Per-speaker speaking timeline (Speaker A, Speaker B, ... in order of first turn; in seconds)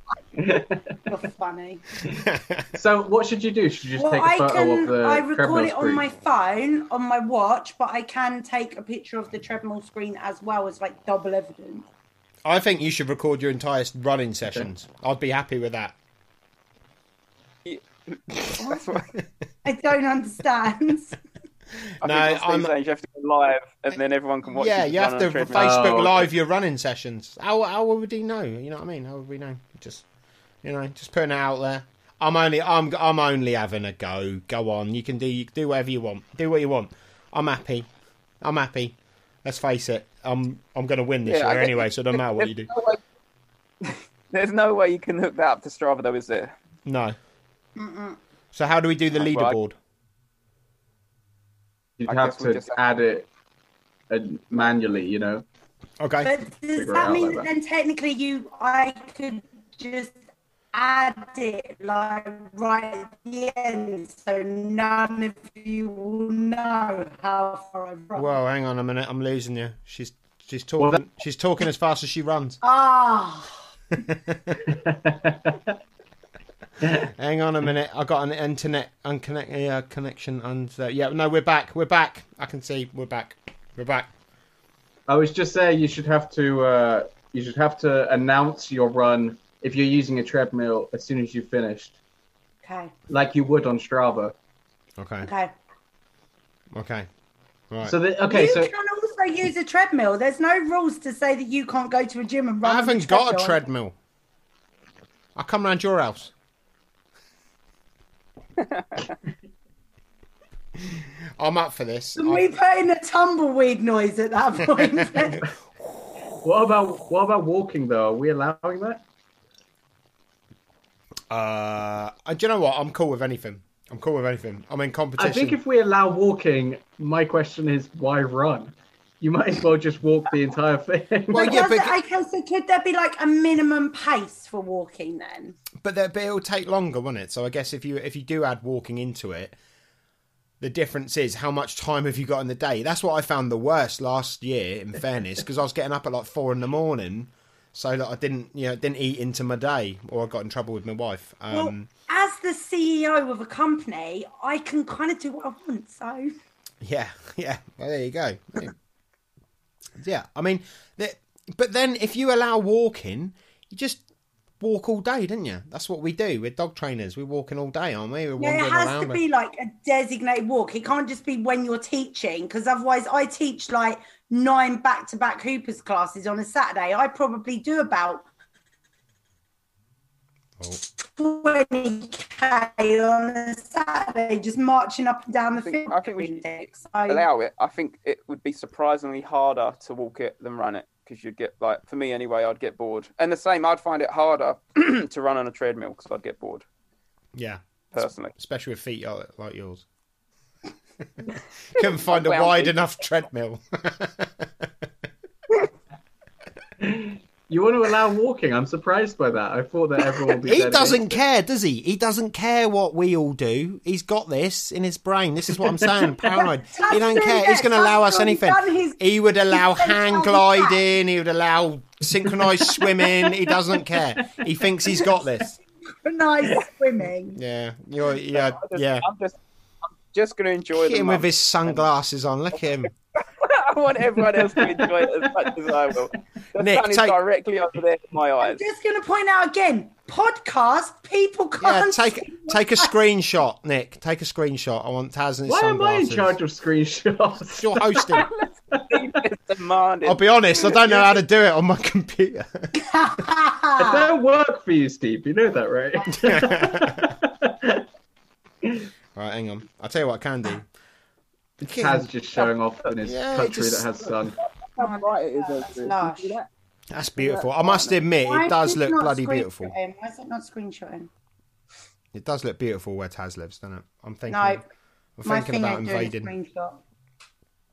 Speaker A: 0.4-1.0, 2.7-6.0, 25.6-26.2, 52.0-53.3, 54.1-55.4, 56.8-57.5, 74.6-75.7, 76.8-77.1, 85.1-92.0, 93.1-94.3, 97.8-98.7, 116.4-119.0, 125.2-131.6, 206.8-211.2, 234.4-234.9, 245.5-248.3, 253.8-257.9, 261.6-264.4
Speaker B: 1.1-1.8, 4.0-11.9, 19.6-21.1, 47.8-48.2, 56.2-60.2, 60.7-68.3, 72.6-73.5, 92.6-92.9, 95.2-95.5, 98.3-103.6, 112.2-115.5, 131.3-135.6, 151.5-156.3, 168.4-178.2, 181.0-187.2, 216.3-220.8, 225.8-227.4, 238.4-242.9, 252.8-254.0, 264.8-266.4, 268.2-271.1, 274.3-274.6, 275.2-276.8
Speaker C: 2.1-2.7, 12.4-15.9, 18.3-19.2, 21.8-22.7, 24.5-30.0, 30.6-37.9, 38.4-42.7, 46.9-47.1, 48.5-49.8, 56.0-56.3, 68.1-72.6, 74.0-74.6, 76.8-84.1, 95.0-95.3, 96.7-97.1, 102.6-103.9, 105.3-106.3, 110.8-112.5, 114.8-115.4, 121.3-125.6, 131.3-132.0, 135.8-139.6, 140.6-151.9, 156.8-158.7, 160.0-164.0, 164.6-169.2, 197.3-199.8, 201.7-204.7, 210.4-225.6, 227.3-229.1, 230.7-232.9, 236.6-237.2, 241.6-246.4, 247.6-248.3, 250.0-252.7, 256.1-257.1, 259.1-260.7, 261.6-262.1, 263.0-263.9, 266.9-269.7, 272.1-274.6, 275.2-276.3
Speaker D: 17.6-19.1, 22.0-26.1, 41.2-43.0, 43.8-46.5, 49.2-49.5, 52.1-52.8, 108.6-108.9, 185.6-186.5, 187.1-196.6, 197.9-198.3, 201.8-202.7, 228.3-231.8, 233.1-238.6, 248.1-250.8, 264.6-266.5, 267.2-267.9